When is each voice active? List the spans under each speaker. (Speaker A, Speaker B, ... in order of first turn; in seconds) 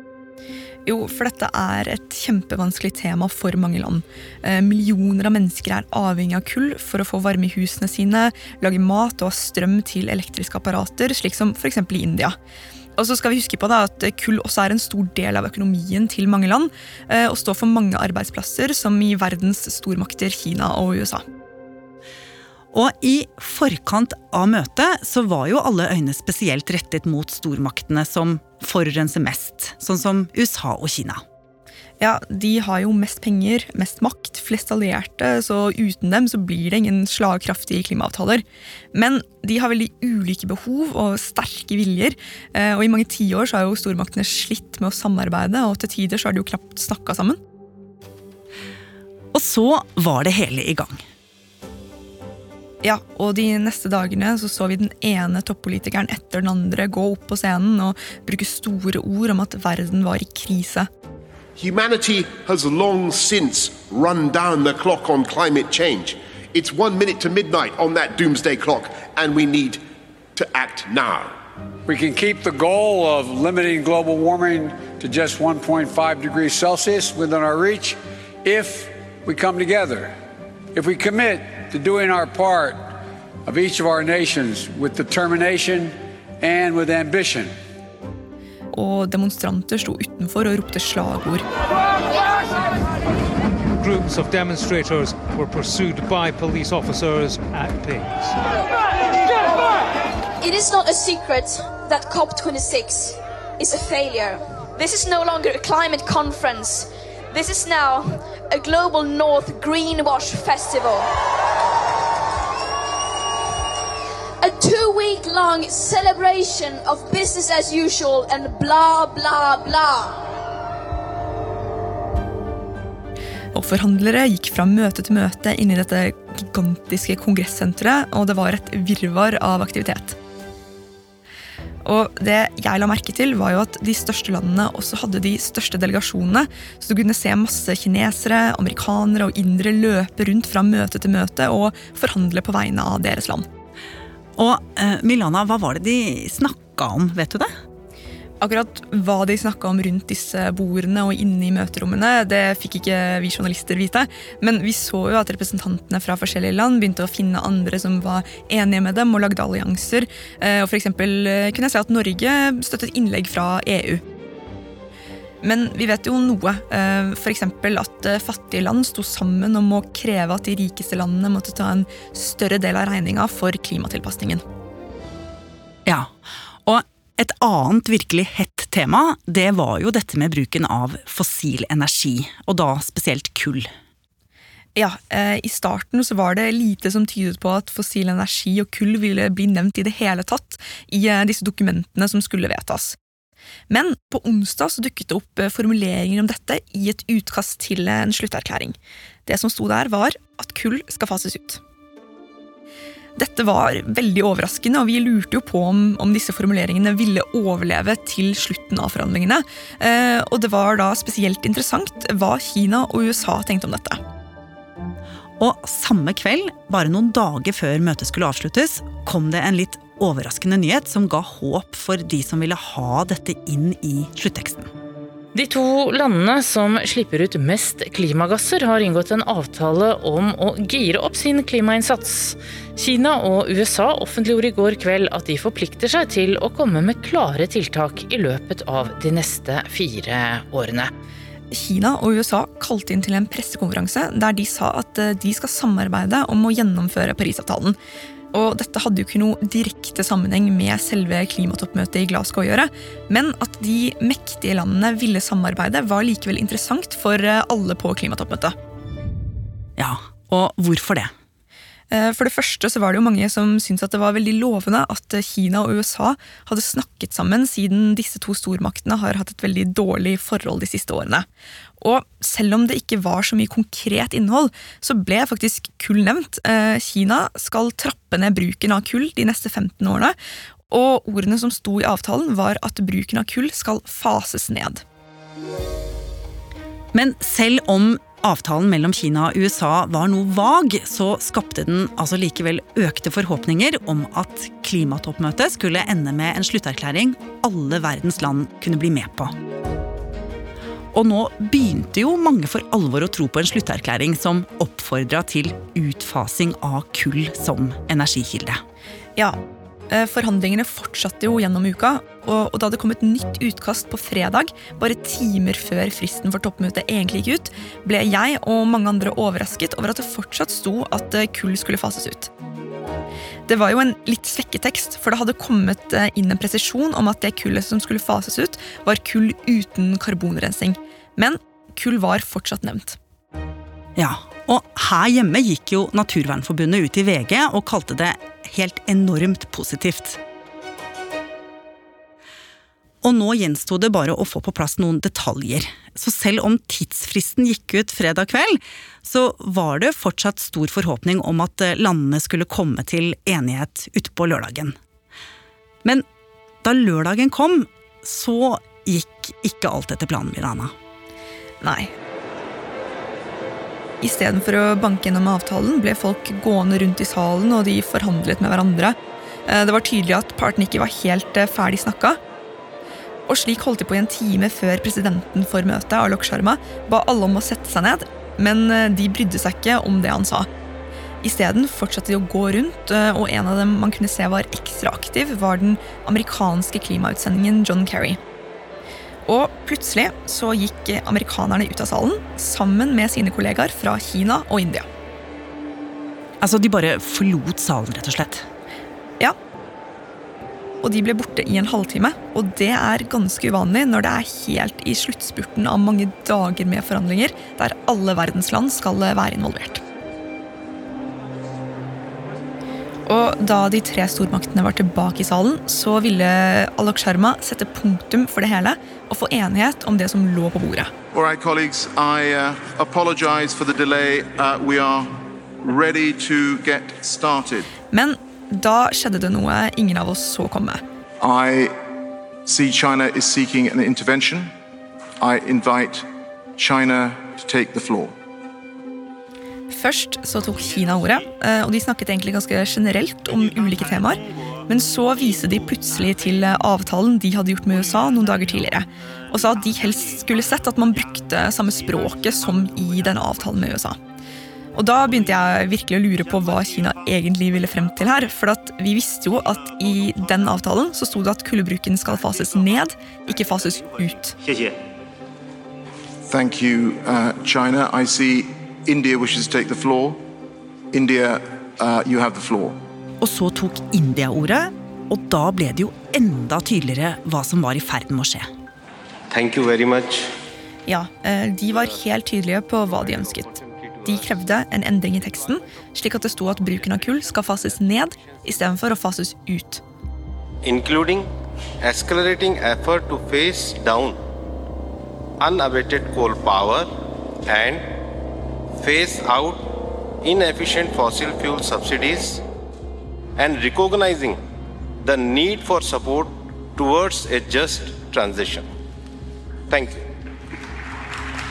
Speaker A: 0.9-12.4, 13.0-21.2, 32.0-47.4, 52.8-60.9, 88.7-91.4, 123.5-130.2, 131.8-143.4, 148.4-164.0, 165.4-174.4, 184.8-193.0, 193.7-201.6, 203.2-214.0, 241.5-247.8, 248.3-258.6, 261.9-271.3, 271.8-280.2, 280.7-284.8, 309.9-322.3, 323.5-333.0, 361.6-361.9, 364.0-372.2, 373.3-380.5, 381.2-388.2, 389.3-394.9, 400.8-409.8, 413.1-421.0, 427.9-430.8, 439.7-454.0, 454.8-464.4, 480.9-489.8
Speaker B: 22.7-31.2, 49.3-51.0, 144.4-147.5, 176.7-183.7, 215.4-224.7, 259.8-261.1, 286.9-299.3, 300.9-308.6, 334.0-340.2, 343.0-354.8, 356.6-360.7, 396.4-398.5, 473.2-478.5
Speaker C: 61.6-69.8, 70.4-71.3
Speaker D: 71.9-80.1, 80.7-82.8, 83.5-87.5
Speaker E: 93.8-98.4
Speaker F: 100.4-111.1, 114.4-120.2
Speaker G: 225.3-240.9
Speaker H: 421.1-425.1, 425.6-427.7, 431.2-431.7, 432.5-434.5, 435.2-436.1, 436.6-438.1, 466.3-470.2, 470.9-472.8
Speaker I: 479.3-480.3, 490.6-491.3, 491.8-494.2, 495.4-496.9, 497.5-497.9, 498.8-502.4, 503.4-504.4, 505.0-508.7, 509.7-510.0